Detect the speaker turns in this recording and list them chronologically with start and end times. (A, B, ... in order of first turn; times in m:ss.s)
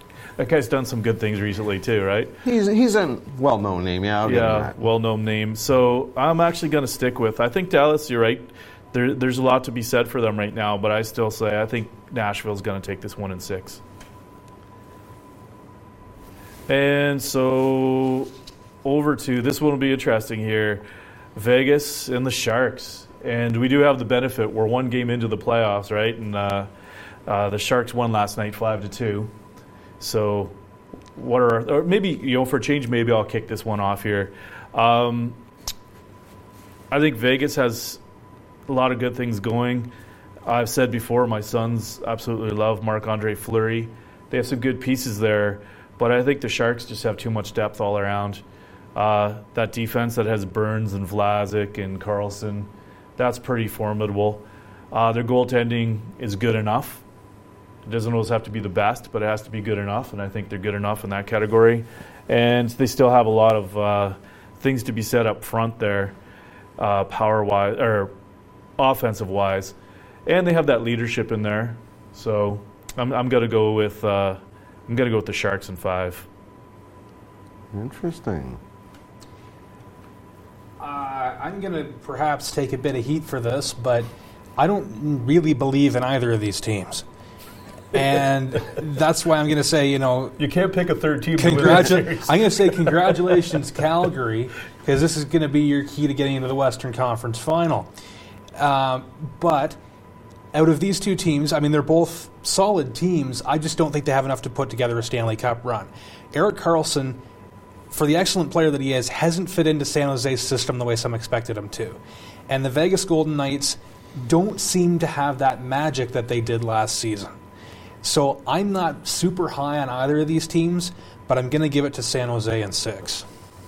0:00.4-0:02.4 A
0:02.4-0:04.7 B
0:04.2-0:13.8 A
0:16.7-0:18.3 A
0:18.8-0:20.8 A
0:21.4-0:26.7 A
0:27.3-0:29.3 A
0:30.0-0:30.5 A
0:31.2-0:35.4 A
0:36.9-0:38.0 A
0:38.7-0:39.9 A
0:40.4-0:48.4 A
0:49.0-0:57.0 A
0:57.8-1:06.2 A
1:06.8-1:08.1 A
1:08.8-1:09.8 A
1:10.3-1:16.3 A
1:17.7-1:18.6 B
1:20.8-1:27.0 C
1:27.9-1:30.4 C
1:30.4-1:33.2 A
1:31.4-1:37.9 C
1:38.6-1:39.8 C
1:40.5-1:47.2 C
1:47.9-1:57.3 C
1:58.0-2:03.3 C